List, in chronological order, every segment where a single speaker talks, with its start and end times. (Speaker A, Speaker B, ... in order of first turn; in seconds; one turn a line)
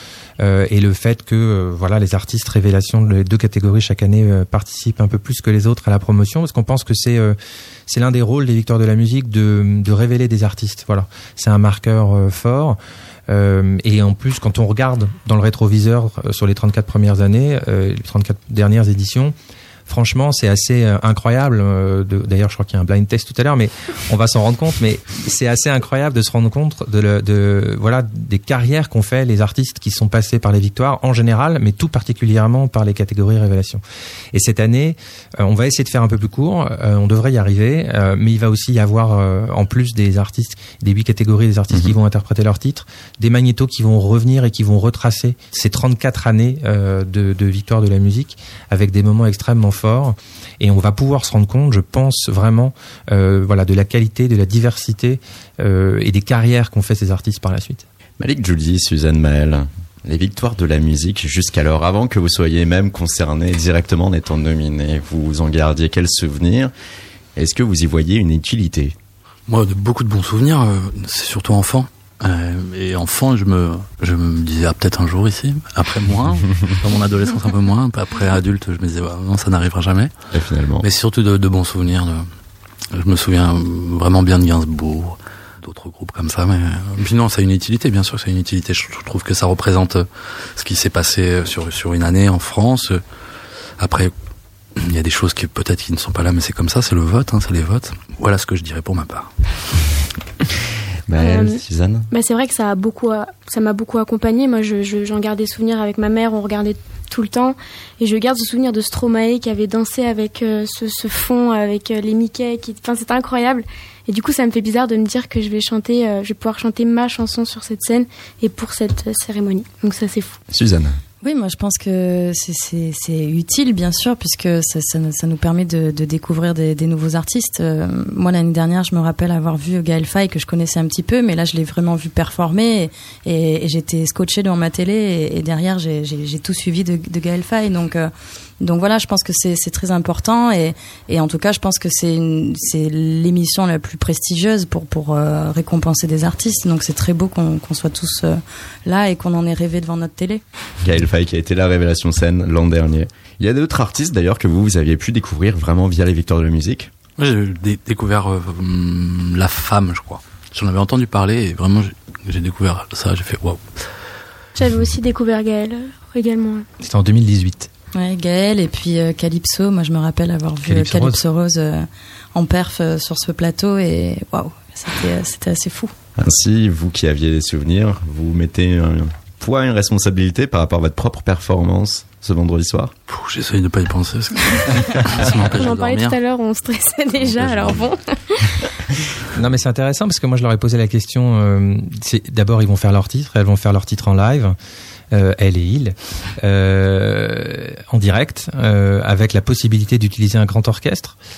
Speaker A: 0.4-12.8
Speaker A: 13.3-19.3
Speaker A: 19.9-33.8
Speaker A: 34.3-57.9
Speaker B: 41.7-42.0
Speaker B: 58.2-66.7
Speaker B: 67.4-69.0
Speaker C: 69.5-80.1
Speaker B: 80.3-80.9
Speaker C: 80.8-82.3
Speaker C: 82.9-93.0
Speaker C: 93.8-94.1
Speaker C: 94.8-99.3
Speaker B: 101.1-102.1
Speaker D: 101.2-101.6
Speaker D: 102.1-120.4
Speaker B: 120.5-121.0
Speaker E: 121.2-150.4
Speaker B: 150.8-156.9
Speaker C: 157.2-163.7
Speaker D: 164.6-166.7
Speaker A: 166.8-167.7
Speaker E: 167.9-175.9
Speaker A: 170.7-171.2
Speaker B: 176.2-182.9
Speaker C: 183.1-186.2
Speaker D: 185.5-188.6
Speaker B: 187.4-187.7
Speaker A: 189.3-194.6
Speaker A: 195.1-201.2